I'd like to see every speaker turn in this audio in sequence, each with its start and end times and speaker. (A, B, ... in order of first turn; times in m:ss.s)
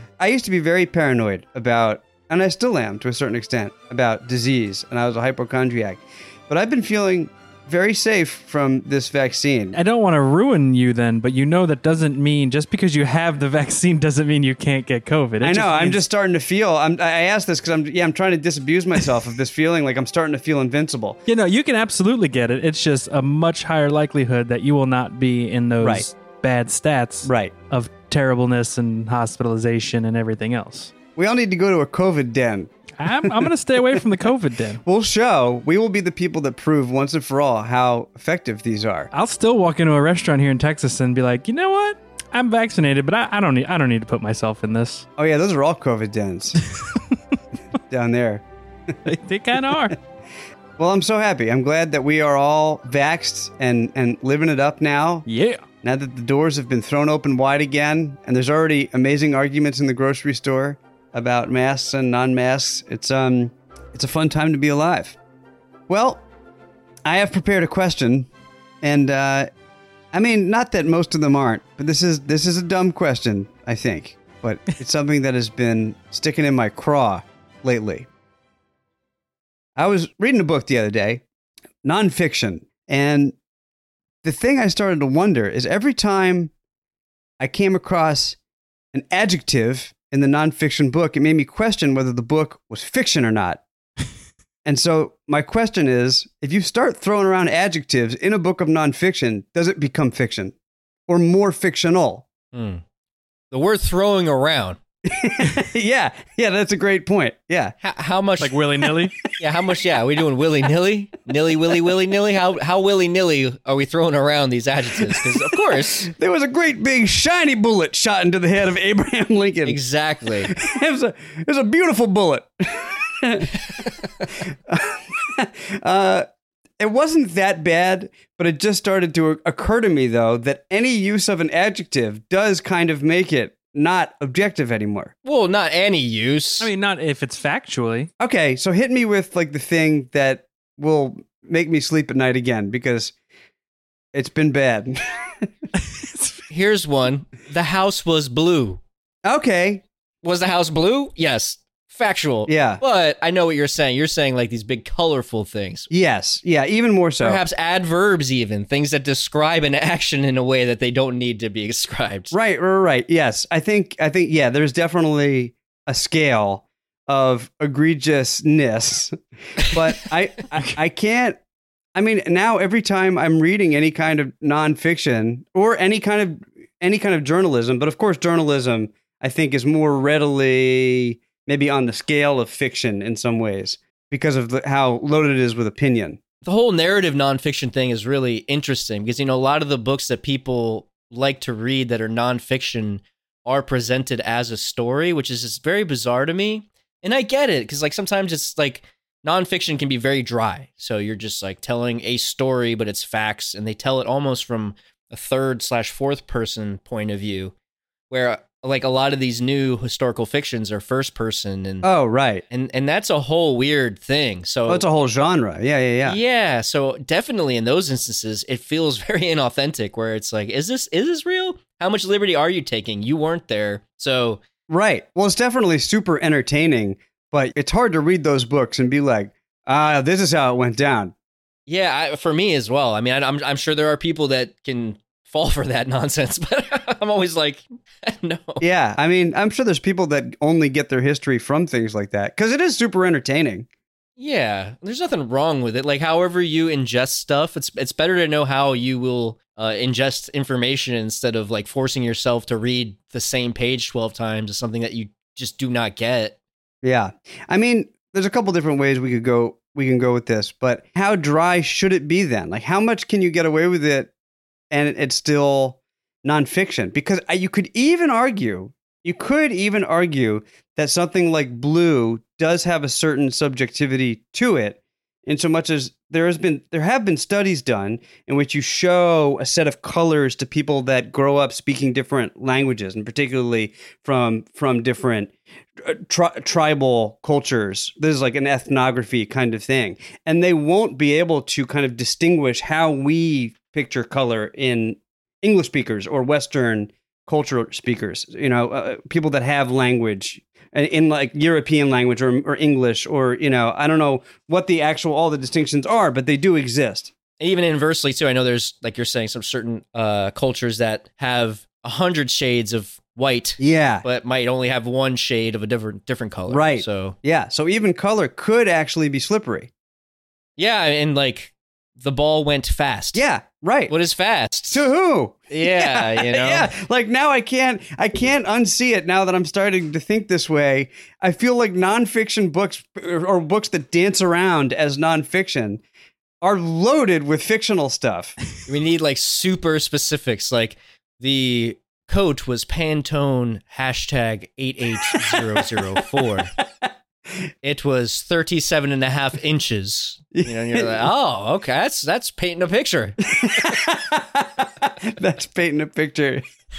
0:00.2-0:09.8 A
0:09.7-0:16.0 B
0:15.4-0:21.2 A
0:21.3-0:30.9 B
0:25.8-0:26.1 A
0:27.2-0:27.5 A
0:31.2-0:32.7 A
0:33.0-0:34.8 B
0:34.8-0:39.1 A
0:39.1-0:45.0 B
0:45.2-0:46.6 A
0:46.7-0:47.0 B
0:47.9-0:48.4 A
0:49.0-0:50.0 B
0:50.8-0:55.3 A
0:55.3-0:55.6 B
0:55.8-1:05.2 A
1:05.9-1:06.2 A
1:07.0-1:08.3 A
1:08.8-1:09.5 A
1:10.1-1:18.1 A
1:19.8-1:21.2 A
1:21.8-1:23.3 A
1:24.2-1:26.5 A
1:27.4-1:28.4 A
1:28.9-1:33.6 A
1:34.6-1:40.5 A
1:41.1-1:42.2 A
1:42.5-1:42.8 C
1:43.5-1:44.8 C
1:45.0-1:47.7 A
1:47.8-1:48.6 C
1:48.4-1:49.2 B
1:49.4-1:56.1 C
1:55.0-1:59.8 A
1:59.6-2:00.5 C
2:00.4-2:06.2 A
2:06.8-2:15.1 A
2:15.2-2:16.7 C
2:16.6-2:18.1 B
2:18.2-2:23.1 A
2:24.1-2:25.5 A
2:25.9-2:26.4 B
2:26.5-2:28.8 C
2:29.2-2:29.8 A
2:30.2-2:35.9 C
2:32.5-2:32.8 A
2:35.9-2:37.4 A
2:37.2-2:42.3 C
2:42.3-2:51.4 A
2:51.9-3:06.2 A
3:06.4-3:27.5 C
3:28.1-3:31.9 C
3:31.8-3:32.4 A
3:32.5-3:34.8 C
3:34.7-3:36.2 A
3:36.0-3:44.4 C
3:44.7-3:51.1 A
3:51.7-3:58.6 C
3:58.6-4:03.7 A
4:04.2-4:16.4 C
4:16.8-4:24.1 A
4:24.7-5:07.1 A
5:07.4-5:17.2 C
5:13.6-5:14.0 A
5:16.5-5:19.7 A
5:20.6-5:23.2 C
5:23.1-5:23.9 A
5:23.9-5:24.9 C
5:24.7-5:35.8 A
5:25.5-5:26.7 C
5:36.4-5:38.4 A
5:38.6-5:46.5 C
5:45.1-5:46.2 A
5:47.6-5:53.7 C
5:50.3-5:51.0 A
5:53.3-5:56.4 A